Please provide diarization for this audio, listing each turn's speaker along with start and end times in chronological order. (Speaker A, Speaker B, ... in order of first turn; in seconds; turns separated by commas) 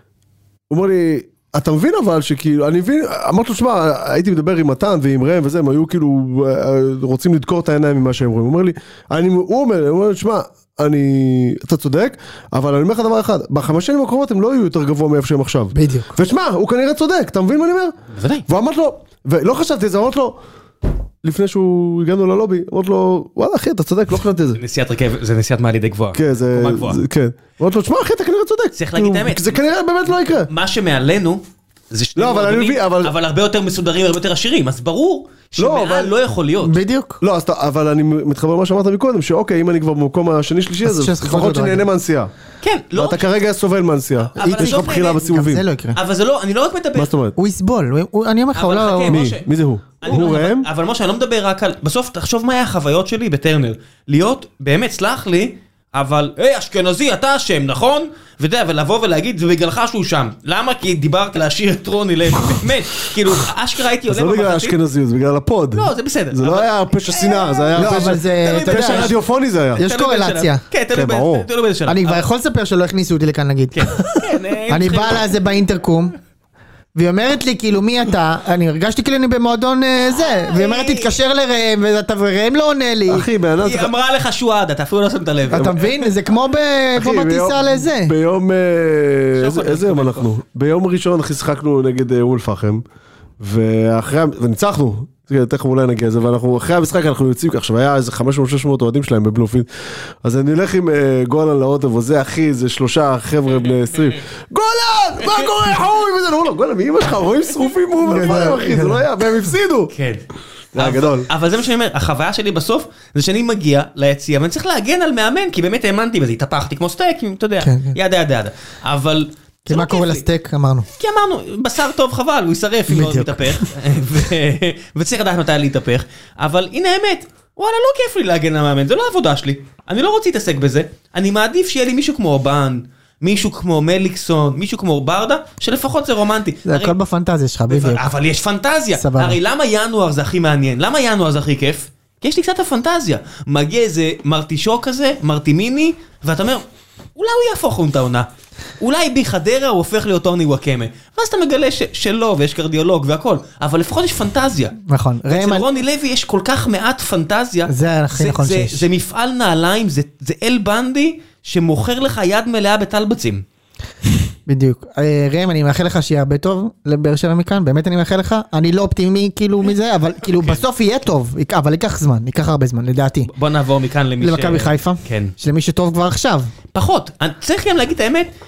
Speaker A: 0.7-17.9, Speaker B: 15.7-16.1, Speaker C: 18.1-18.5, Speaker A: 18.5-20.4, Speaker A: 21.2-24.6, Speaker C: 24.6-27.0, Speaker A: 26.1-30.5, Speaker C: 28.8-29.6, Speaker C: 30.5-36.8, Speaker A: 32.2-33.1, Speaker A: 35.6-36.1, Speaker B: 36.6-37.2, Speaker A: 37.2-42.3, Speaker B: 40.9-41.9, Speaker C: 42.6-43.3, Speaker A: 42.9-45.6, Speaker C: 44.3-45.2, Speaker B: 44.4-46.0, Speaker C: 46.0-47.1, Speaker A: 47.0-47.4, Speaker B: 47.4-49.3, Speaker C: 48.5-49.5, Speaker A: 49.1-50.7, Speaker C: 50.0-64.8, Speaker A: 64.1-69.8, Speaker C: 65.8-69.2, Speaker B: 67.8-69.2, Speaker B: 69.8-70.6, Speaker C: 69.8-72.3, Speaker A: 70.9-71.5, Speaker B: 71.9-73.8, Speaker C: 73.7-75.3, Speaker B: 74.7-76.2, Speaker B: 77.0-83.3, Speaker C: 80.2-81.1, Speaker A: 83.1-83.9, Speaker C: 83.6-85.8, Speaker B: 85.5-88.1, Speaker A: 85.5-85.9, Speaker A: 87.0-92.8, Speaker C: 89.4-90.3, Speaker A: 93.4-99.7, Speaker A: 100.2-109.9, Speaker B: 108.0-109.1, Speaker C: 109.9-110.2, Speaker A: 110.7-111.3, Speaker C: 110.8-120.2, Speaker B: 117.6-118.0, Speaker B: 119.7-120.9, Speaker C: 121.0-136.9, Speaker B: 122.9-123.7, Speaker B: 136.7-138.1, Speaker C: 137.7-146.6, Speaker B: 138.9-139.4, Speaker C: 147.2-148.3, Speaker C: 148.8-154.8, Speaker B: 154.8-155.7, Speaker C: 155.3-163.4, Speaker B: 157.7-158.9, Speaker B: 164.5-173.3, Speaker C: 173.3-175.3, Speaker B: 174.2-176.5, Speaker C: 176.7-178.3